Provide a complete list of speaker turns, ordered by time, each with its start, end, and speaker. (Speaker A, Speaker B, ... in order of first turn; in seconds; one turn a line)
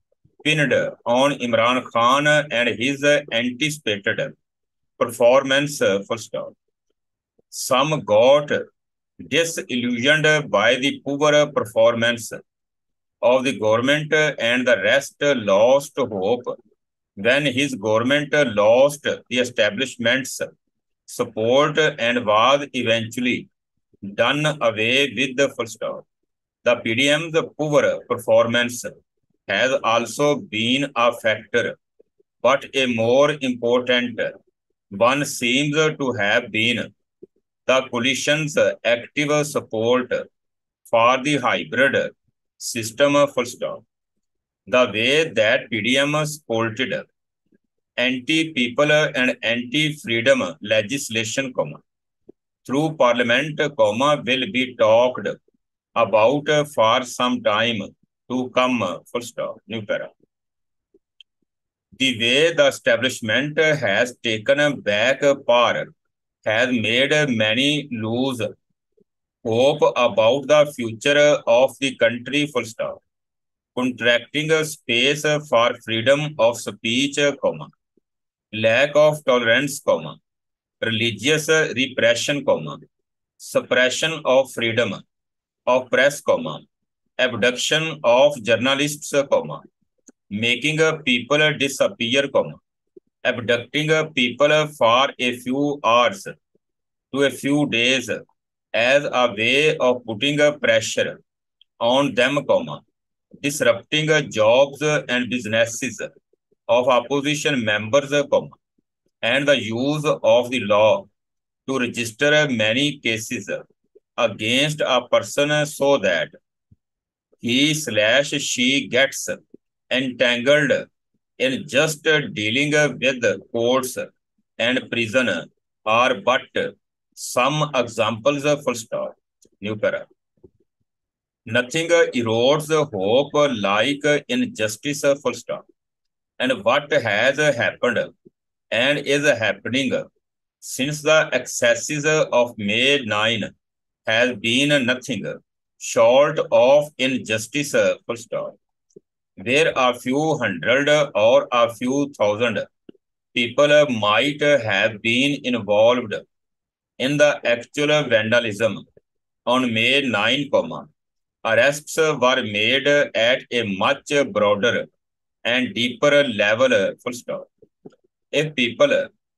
Speaker A: 0.4-4.3
Speaker A: 5.0-6.5
Speaker A: 7.5-8.6
Speaker A: 9.2-12.4
Speaker A: 13.2-16.5
Speaker A: 17.2-20.5
Speaker A: 21.1-23.5
Speaker A: 24.0-26.1
Speaker A: 26.6-28.9
Speaker A: 29.5-31.8
Speaker A: 32.4-34.3
Speaker A: 34.9-36.9
Speaker A: 37.7-40.3
Speaker A: 40.9-43.8
Speaker A: 44.7-47.1
Speaker A: 48.0-51.8
Speaker A: 52.6-55.4
Speaker A: 56.0-60.1
Speaker A: 62.0-65.9
Speaker A: 66.4-68.5
Speaker A: 69.4-73.0
Speaker A: 73.8-77.7
Speaker A: 78.5-80.2
Speaker A: 80.8-82.8
Speaker A: 83.4-85.0
Speaker A: 85.7-86.7
Speaker A: 87.2-89.6
Speaker A: 90.3-92.6
Speaker A: 93.2-96.4
Speaker A: 97.1-98.2
Speaker A: 98.7-101.2
Speaker A: 101.8-102.8
Speaker A: 103.4-106.1
Speaker A: 106.7-108.6
Speaker A: 109.2-111.1
Speaker A: 111.7-113.7
Speaker A: 114.2-116.3
Speaker A: 117.4-120.8
Speaker A: 121.4-130.1
Speaker A: 131.5-135.6
Speaker A: 136.4-138.1
Speaker A: 138.7-140.1
Speaker A: 140.6-143.5
Speaker A: 144.1-148.6
Speaker A: 149.4-152.7
Speaker A: 153.3-156.2
Speaker A: 157.0-158.8
Speaker A: 159.5-160.9
Speaker A: 161.4-164.9
Speaker A: 165.4-167.5
Speaker A: 168.3-169.1